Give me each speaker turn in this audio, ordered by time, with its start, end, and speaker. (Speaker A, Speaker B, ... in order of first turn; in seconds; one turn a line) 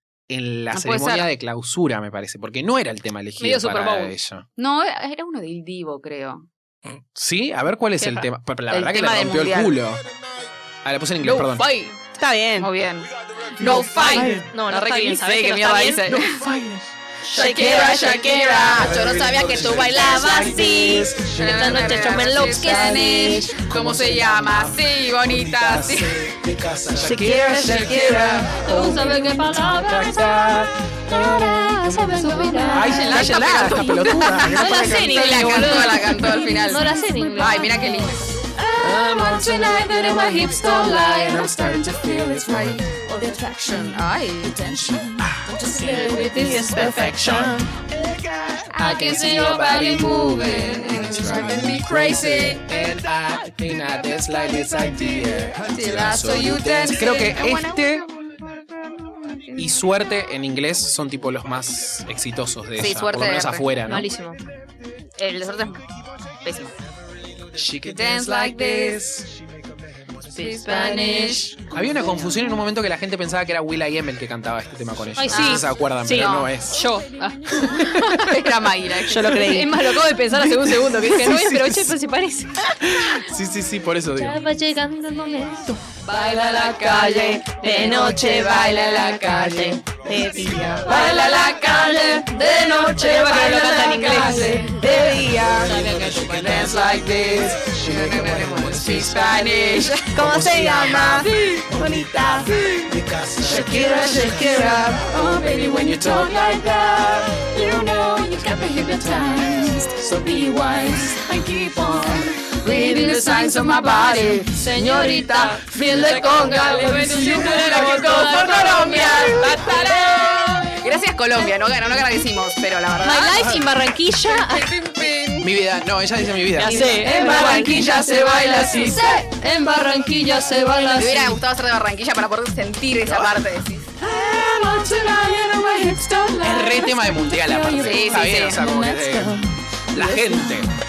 Speaker A: 0.3-4.5
Speaker B: 0.7-1.3
Speaker C: 3.4-4.1
Speaker B: 4.6-6.5
Speaker A: 7.0-10.0
Speaker C: 8.0-8.3
Speaker B: 8.7-9.8
Speaker A: 10.8-11.7
Speaker C: 11.2-11.9
Speaker D: 12.2-12.7
Speaker B: 12.6-16.4
Speaker C: 13.6-16.2
Speaker D: 13.9-14.4
Speaker A: 14.1-14.4
Speaker A: 16.1-16.9
Speaker D: 17.3-18.9
Speaker B: 17.3-20.7
Speaker E: 17.4-18.2
Speaker A: 18.6-22.2
Speaker E: 20.1-21.1
Speaker B: 21.3-26.2
Speaker C: 21.4-23.5
Speaker A: 23.6-32.0
Speaker D: 27.0-28.5
Speaker C: 28.6-30.6
Speaker C: 31.1-33.5
Speaker E: 31.8-33.2
Speaker A: 32.7-35.6
Speaker B: 32.8-38.4
Speaker C: 34.4-38.1
Speaker E: 38.5-42.0
Speaker A: 38.8-42.9
Speaker B: 42.5-42.8
Speaker E: 42.5-43.8
Speaker B: 43.5-44.7
Speaker A: 44.6-45.5
Speaker E: 45.7-46.6
Speaker C: 45.7-46.9
Speaker D: 46.2-47.7
Speaker A: 46.6-47.7
Speaker A: 48.5-58.1
Speaker B: 48.8-49.2
Speaker E: 48.8-51.3
Speaker B: 50.5-52.6
Speaker B: 55.7-58.0
Speaker A: 59.5-64.1
Speaker B: 62.8-63.7
Speaker C: 63.9-64.4
Speaker B: 65.2-65.8
Speaker B: 66.4-66.7
Speaker A: 67.5-69.3
Speaker B: 67.9-69.1
Speaker C: 70.3-71.6
Speaker B: 70.4-71.4
Speaker E: 70.7-71.4
Speaker A: 71.7-76.8
Speaker C: 75.2-78.2
Speaker B: 75.3-76.5
Speaker A: 77.5-78.3
Speaker B: 78.1-79.7
Speaker D: 79.0-79.8
Speaker C: 79.3-82.8
Speaker A: 80.4-81.9
Speaker A: 82.7-84.4
Speaker C: 84.2-86.0
Speaker E: 86.0-89.8
Speaker D: 86.9-91.2
Speaker C: 87.6-88.4
Speaker E: 90.8-95.2
Speaker C: 92.6-94.6
Speaker D: 93.4-95.8
Speaker A: 95.3-106.9
Speaker C: 95.7-96.8
Speaker B: 97.8-100.1
Speaker D: 100.1-102.5
Speaker E: 101.3-102.9
Speaker E: 103.4-120.8
Speaker B: 112.6-114.6
Speaker C: 114.2-120.0
Speaker A: 115.9-117.7
Speaker B: 117.4-123.6
Speaker C: 123.0-124.8
Speaker B: 124.2-125.5
Speaker A: 125.4-127.0
Speaker C: 126.6-127.9
Speaker E: 126.7-131.2
Speaker D: 127.2-127.4
Speaker B: 128.2-128.6
Speaker C: 130.8-131.4
Speaker B: 131.0-133.9
Speaker A: 133.1-133.4
Speaker E: 134.0-139.4
Speaker A: 136.4-140.7
Speaker B: 137.8-138.8
Speaker E: 140.1-140.4